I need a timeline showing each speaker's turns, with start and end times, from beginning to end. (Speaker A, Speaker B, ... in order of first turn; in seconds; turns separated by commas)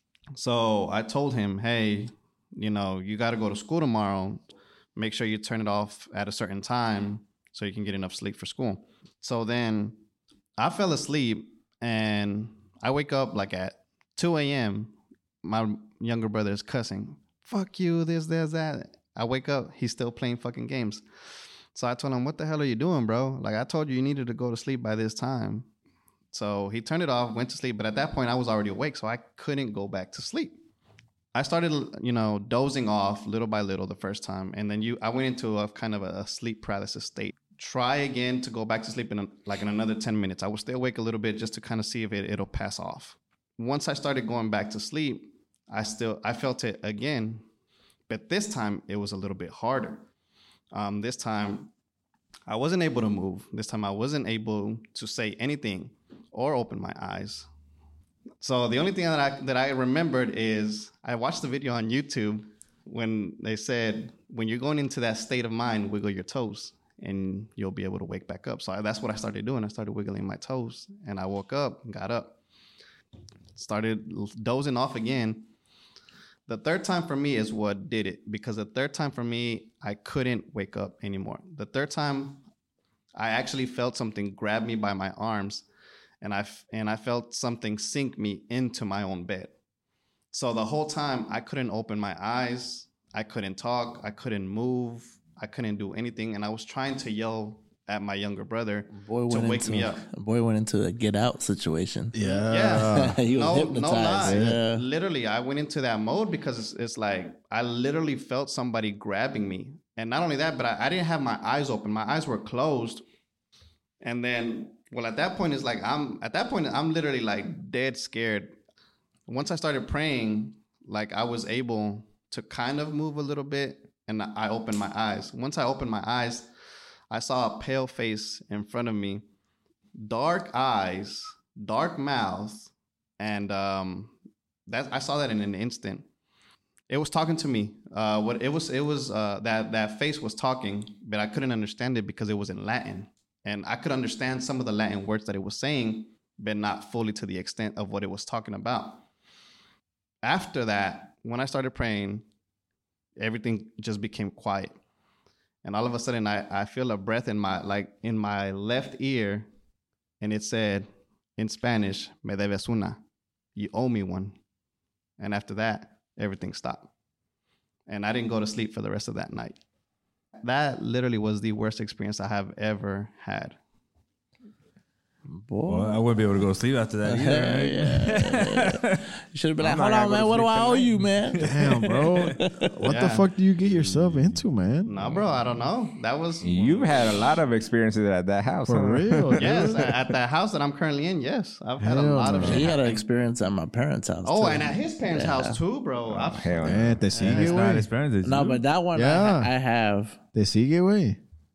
Speaker A: 0.3-4.4, Speaker A: 5.0-10.0, Speaker A: 10.6-21.0, Speaker A: 21.7-25.7, Speaker A: 26.3-30.6, Speaker A: 31.3-47.4, Speaker A: 48.1-50.0, Speaker A: 50.7-51.7, Speaker A: 52.5-57.5, Speaker A: 58.4-72.4, Speaker A: 73.5-75.5, Speaker A: 76.5-82.4, Speaker A: 83.1-85.6, Speaker A: 86.2-89.5, Speaker A: 90.3-100.1, Speaker B: 98.9-102.1, Speaker C: 102.1-103.2, Speaker A: 102.5-113.0, Speaker B: 102.8-104.8, Speaker C: 104.2-104.6, Speaker A: 114.0-118.5, Speaker A: 119.3-126.5, Speaker A: 127.1-129.2, Speaker A: 130.0-134.1, Speaker A: 134.7-136.1, Speaker A: 136.9-149.0, Speaker A: 150.2-152.2, Speaker A: 153.2-154.7, Speaker A: 155.6-159.5, Speaker A: 160.2-163.0, Speaker A: 163.6-164.3, Speaker A: 165.2-166.9, Speaker A: 167.9-169.6, Speaker A: 170.4-173.6, Speaker B: 175.3-176.0, Speaker D: 175.7-179.1, Speaker B: 177.0-181.4, Speaker E: 179.6-181.1, Speaker C: 181.4-184.9, Speaker D: 181.4-182.4, Speaker B: 182.4-182.8, Speaker A: 182.8-183.3, Speaker A: 184.8-187.4, Speaker E: 185.0-185.3, Speaker E: 186.4-190.1, Speaker C: 188.6-189.9, Speaker A: 189.4-193.0, Speaker C: 191.8-192.7, Speaker B: 192.4-195.6, Speaker A: 194.2-197.7, Speaker E: 196.1-197.0, Speaker C: 196.6-197.9, Speaker D: 197.2-198.6, Speaker B: 198.2-200.2, Speaker C: 198.9-199.5, Speaker C: 200.3-201.2